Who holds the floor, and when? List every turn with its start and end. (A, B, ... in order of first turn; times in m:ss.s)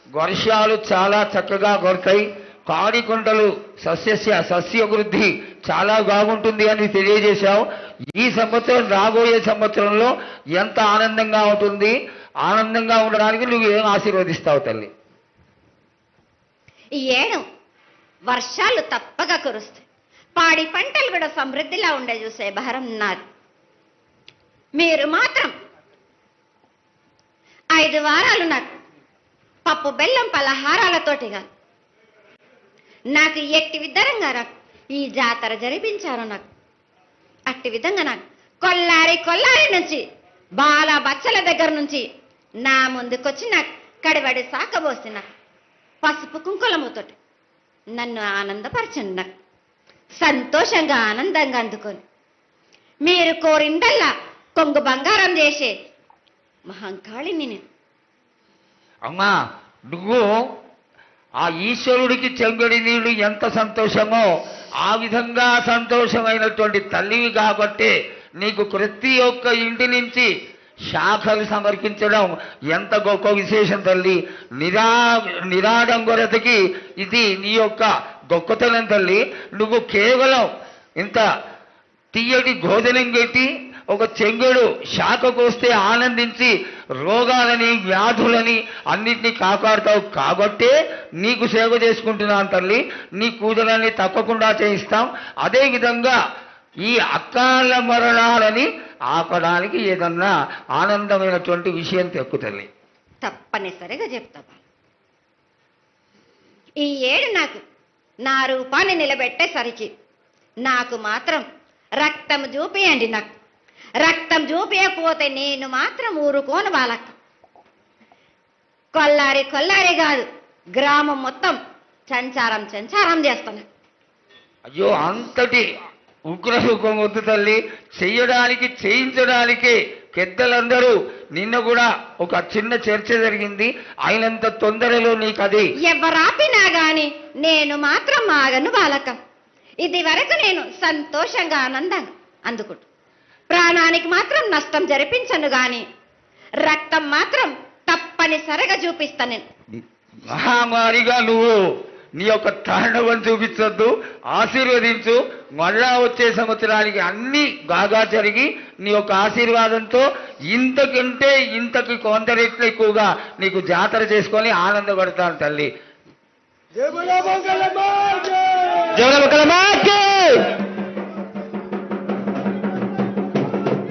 0:00.2-0:07.6 A
0:08.2-0:14.9 A
0:17.0-0:17.4 B
0:18.3-0:19.9 B
0:20.4-0:23.2 B
0:24.8-0:25.5 B
0:27.8-0:28.7 B
0:29.7-0:31.4 B
0:33.1-0:36.5 B
0:37.5-0:40.0 B
0:40.6-0:42.1 B
0:42.6-0:45.3 B
0:46.0-0:47.2 B
0:48.0-0:49.3 B
0:50.2-0:52.0 B
0:53.0-0:55.7 B
0:56.7-0:57.6 B
0:59.1-0:59.3 A
0:59.9-1:00.2 A
1:01.4-1:04.3 A
1:04.8-1:10.3 A
1:10.9-1:20.5 A
1:21.0-1:21.3 A
1:22.1-1:36.2 A
1:36.8-1:42.7 A
1:43.2-1:44.6 B
1:46.8-1:47.6 B
1:48.3-1:49.9 B
1:50.6-1:51.4 B
1:52.0-1:53.3 B
1:54.0-1:57.2 B
1:59.0-2:00.3 B
2:00.8-2:01.6 B
2:02.1-2:03.7 B
2:04.7-2:05.6 A
2:06.3-2:15.7 A
2:15.8-2:19.2 B
2:19.8-2:22.9 B
2:23.5-2:25.8 B
2:26.6-2:29.4 B
2:30.3-2:31.6 A
2:32.2-2:45.7 A
2:46.8-2:50.6 C